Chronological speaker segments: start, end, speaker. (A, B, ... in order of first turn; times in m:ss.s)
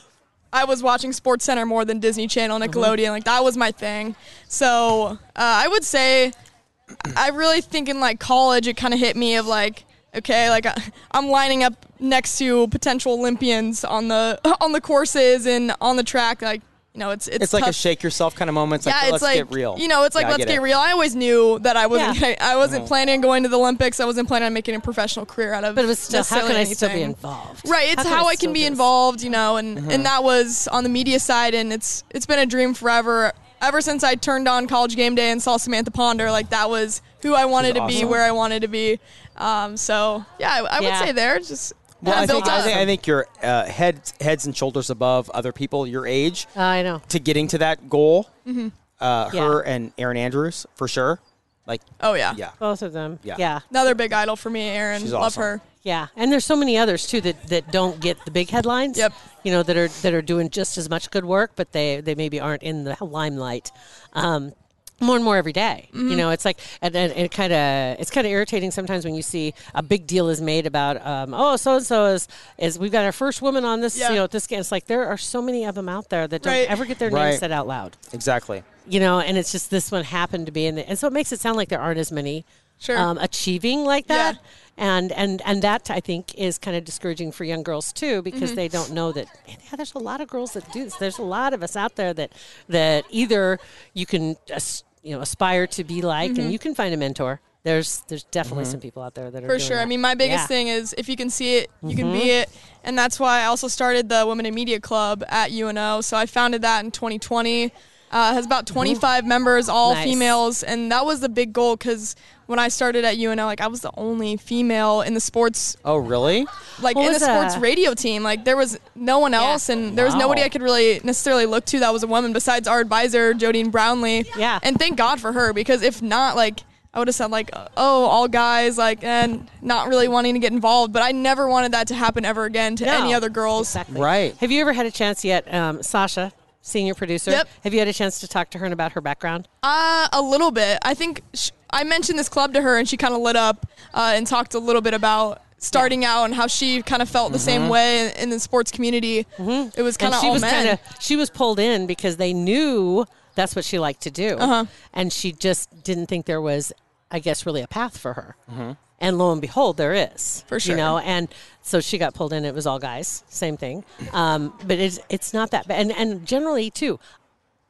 0:00.5-0:06.3 A
0:02.6-0:03.0 B
0:07.0-0:17.8 A
0:17.4-0:20.6 C
0:18.8-0:42.9 A
0:21.9-0:22.2 B
0:22.6-0:22.9 C
0:25.7-0:28.8 B
0:29.8-0:30.1 C
0:37.6-0:38.2 C
0:37.9-0:38.2 B
0:40.8-0:41.1 B
0:42.0-0:46.5 C
0:42.0-0:42.9 B
0:46.6-0:47.0 B
0:47.1-0:48.3 C
0:48.4-0:48.7 A
0:49.0-0:52.6 C
0:49.3-0:49.6 B
0:52.0-0:52.4 A
0:52.6-0:53.6 B
0:53.7-0:55.6 A
0:55.0-0:55.5 C
0:55.8-1:18.0 B
1:05.9-1:06.2 A
1:13.9-1:14.2 A
1:16.4-1:16.8 A
1:17.0-1:17.4 C
1:18.1-1:18.6 C
1:18.8-1:40.5 B
1:22.8-1:23.1 A
1:24.1-1:24.4 A
1:28.3-1:28.6 A
1:36.2-1:36.6 A
1:38.4-1:38.8 C
1:39.5-1:55.8 A
1:41.8-1:42.3 B
1:48.7-1:49.0 B
1:49.8-1:50.4 B
1:55.8-1:56.5 C
1:56.8-2:13.8 A
1:56.9-1:57.6 B
1:59.4-2:00.5 B
2:04.3-2:04.6 B
2:12.8-2:19.5 B
2:13.9-2:14.4 C
2:19.6-2:30.8 A
2:27.3-2:27.8 C
2:29.4-2:38.4 B
2:34.4-2:34.7 A
2:38.5-2:38.8 C
2:39.0-2:47.0 B
2:40.5-2:41.0 A